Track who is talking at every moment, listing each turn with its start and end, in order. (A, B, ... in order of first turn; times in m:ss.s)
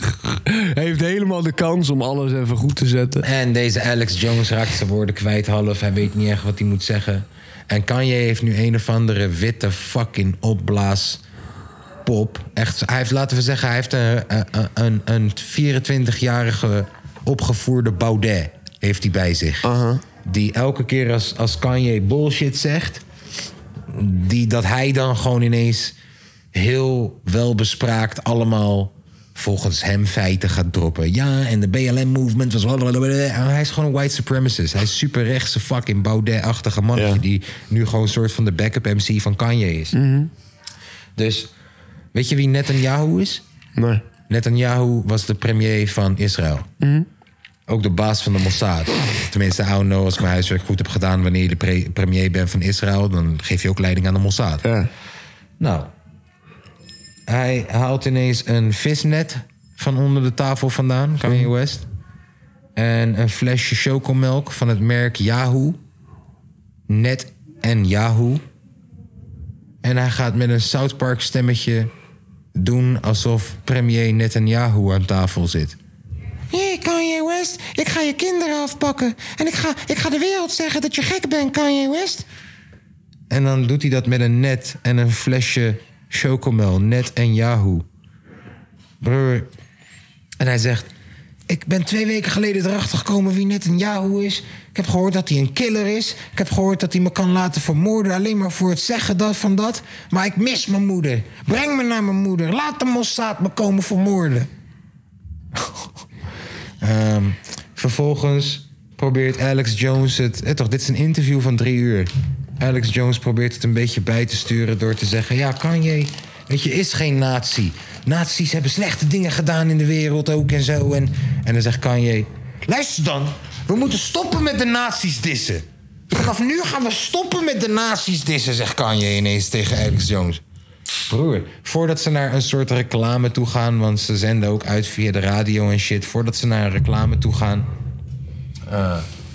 0:00.3-0:03.3 A
0:03.2-0:11.2 B
0:12.0-0:19.7 B
0:19.6-0:20.0 A
0:20.2-0:23.0 B
0:23.9-0:26.0 B
0:26.5-0:40.0 B
0:37.0-0:37.2 A
0:39.9-0:40.3 A
0:41.2-0:41.5 B
0:42.1-0:43.4 B
0:43.8-0:44.0 A
0:44.3-0:46.7 B
0:46.8-0:47.1 A
0:47.7-0:54.6 B
0:54.6-0:54.9 A
0:55.6-0:55.9 B
0:57.3-1:01.9 B
1:02.8-1:05.8 B
1:06.9-1:08.4 B
1:09.8-1:11.9 B
1:12.6-1:15.8 B
1:16.5-1:22.3 B
1:23.3-1:27.9 B
1:29.0-1:29.5 B
1:30.4-1:30.9 B
1:31.5-1:44.5 B
1:45.5-1:45.9 B
1:46.8-2:10.4 B
2:11.1-2:17.7 B
2:18.7-2:19.1 B